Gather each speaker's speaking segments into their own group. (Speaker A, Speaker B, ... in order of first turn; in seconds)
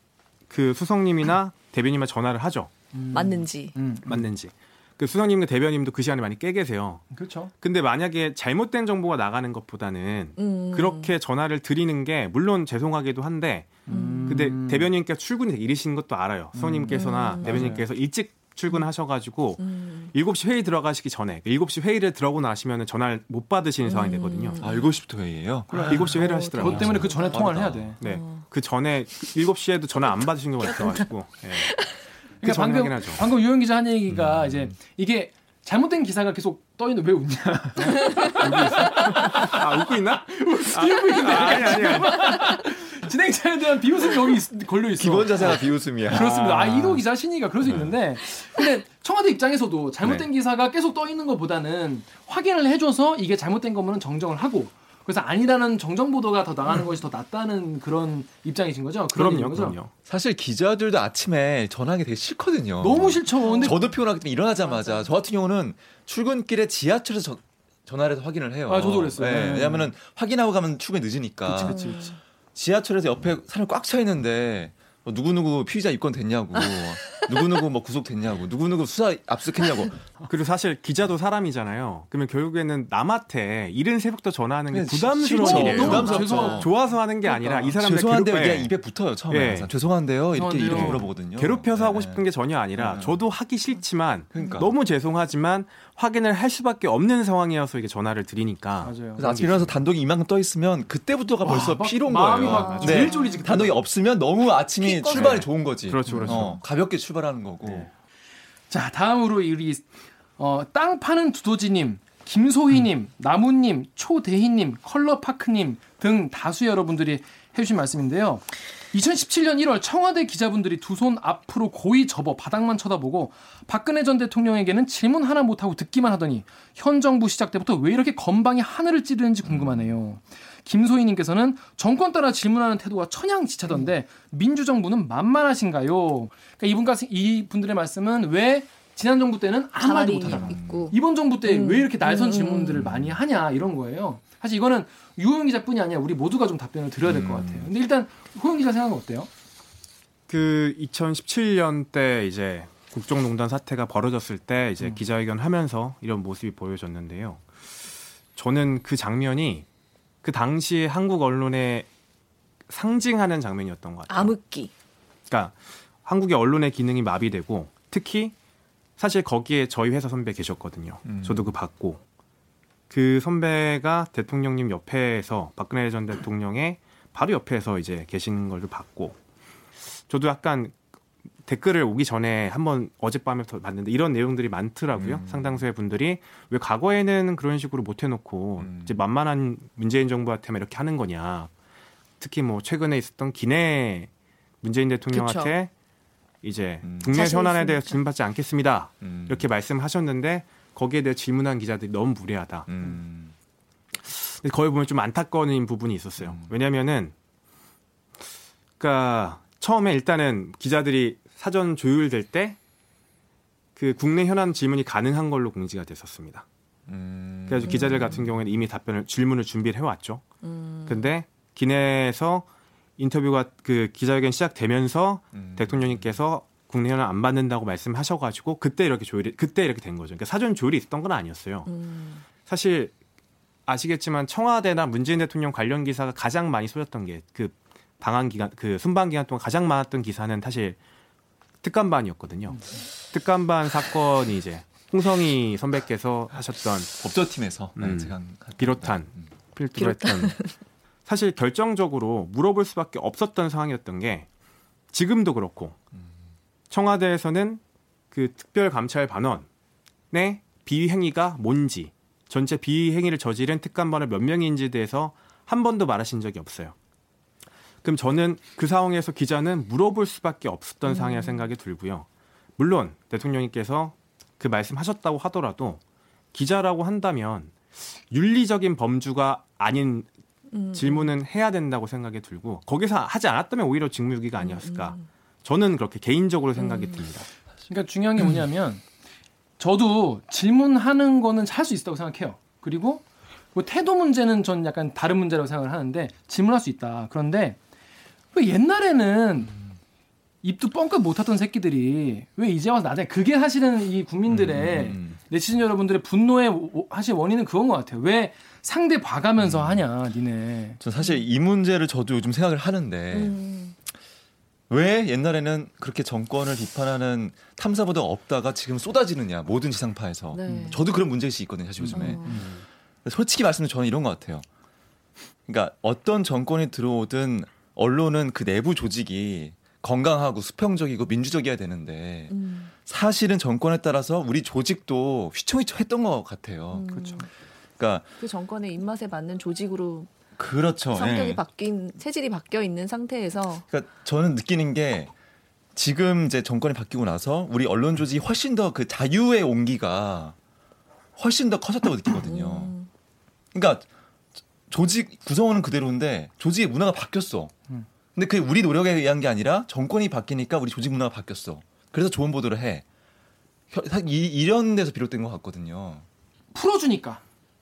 Speaker A: 0.5-2.7, 4.0-7.1, 7.6-24.6, 25.7-27.4, 28.0-31.7, 32.4-33.2, 37.8-42.5, 46.1-47.0, 59.1-59.9, 80.3-88.7, 89.3-89.7, 90.6-99.7, 102.3-103.2, 105.1-106.6, 150.3-157.4, 158.3-159.6, 160.2-161.9, 162.7-164.3, 165.3-168.3, 169.0-172.0, 172.9-179.2, 180.1-180.7, 181.4-191.5, 192.2-194.1, 194.6-195.7, 196.4-202.7, 204.1-207.1, 208.8-212.6, 213.8-216.4, 217.5-220.2, 220.8-222.4, 223.0-231.7, 232.4-232.9, 233.7-240.8, 241.6-247.0, 247.8-250.4, 251.1-254.3, 254.9-255.8, 256.7-257.6, 258.1-259.4, 260.1-266.7, 267.8-272.1, 272.6-275.8, 276.3-277.5, 278.1-280.1, 280.7-287.2
Speaker B: 2.9-4.2, 7.1-7.5, 13.9-14.9, 16.5-17.9, 25.7-28.0, 32.4-59.8, 62.8-63.8, 68.7-69.9, 71.5-72.1, 85.4-87.7, 90.3-91.0, 98.8-99.2, 101.4-103.8, 106.0-106.5, 108.7-109.8, 110.4-149.3, 287.7-288.8, 289.6-293.0, 293.5-297.6, 298.3-299.6, 300.4-310.8, 321.8-322.4, 336.9-337.3, 366.5-367.2
Speaker C: 3.1-3.8, 10.4-11.1, 13.9-14.5, 16.9-17.6, 19.6-20.1, 23.9-24.9, 26.2-27.3, 28.0-28.4, 30.6-31.1, 31.6-31.9, 63.4-63.8, 64.7-65.0, 71.6-72.1, 85.8-86.6, 102.5-103.5, 104.8-105.4, 139.8-142.8, 164.1-164.7, 195.1-195.5, 197.1-197.9, 217.7-218.0, 220.4-221.1, 231.7-232.2, 249.8-250.5, 270.9-271.4, 280.5-281.1, 284.4-285.0, 286.6-287.0, 313.1-313.7, 320.3-320.8, 321.9-322.4, 332.3-332.7, 336.7-337.3, 338.2-340.1, 340.9-343.6, 352.2-352.9
Speaker D: 24.6-27.9, 34.1-34.5, 45.0-46.4, 60.0-71.8, 72.5-80.0, 84.7-86.7, 87.8-92.2, 92.8-93.2, 94.3-94.7, 99.2-107.9, 129.4-129.9, 140.2-140.9, 142.8-143.2, 147.0-147.7, 171.1-171.4, 185.0-185.6, 188.6-189.0, 196.8-197.1, 199.0-199.4, 202.7-203.3, 206.2-206.5, 216.9-218.3, 225.3-226.1, 247.0-249.2, 304.3-305.2, 309.4-309.8, 310.8-313.4, 314.7-322.5, 323.0-324.4, 325.5-337.0, 337.8-338.1, 340.4-341.4, 343.7-345.1, 345.7-350.3, 351.1-352.7, 353.5-353.9, 354.7-357.5, 358.1-362.8, 363.7-366.0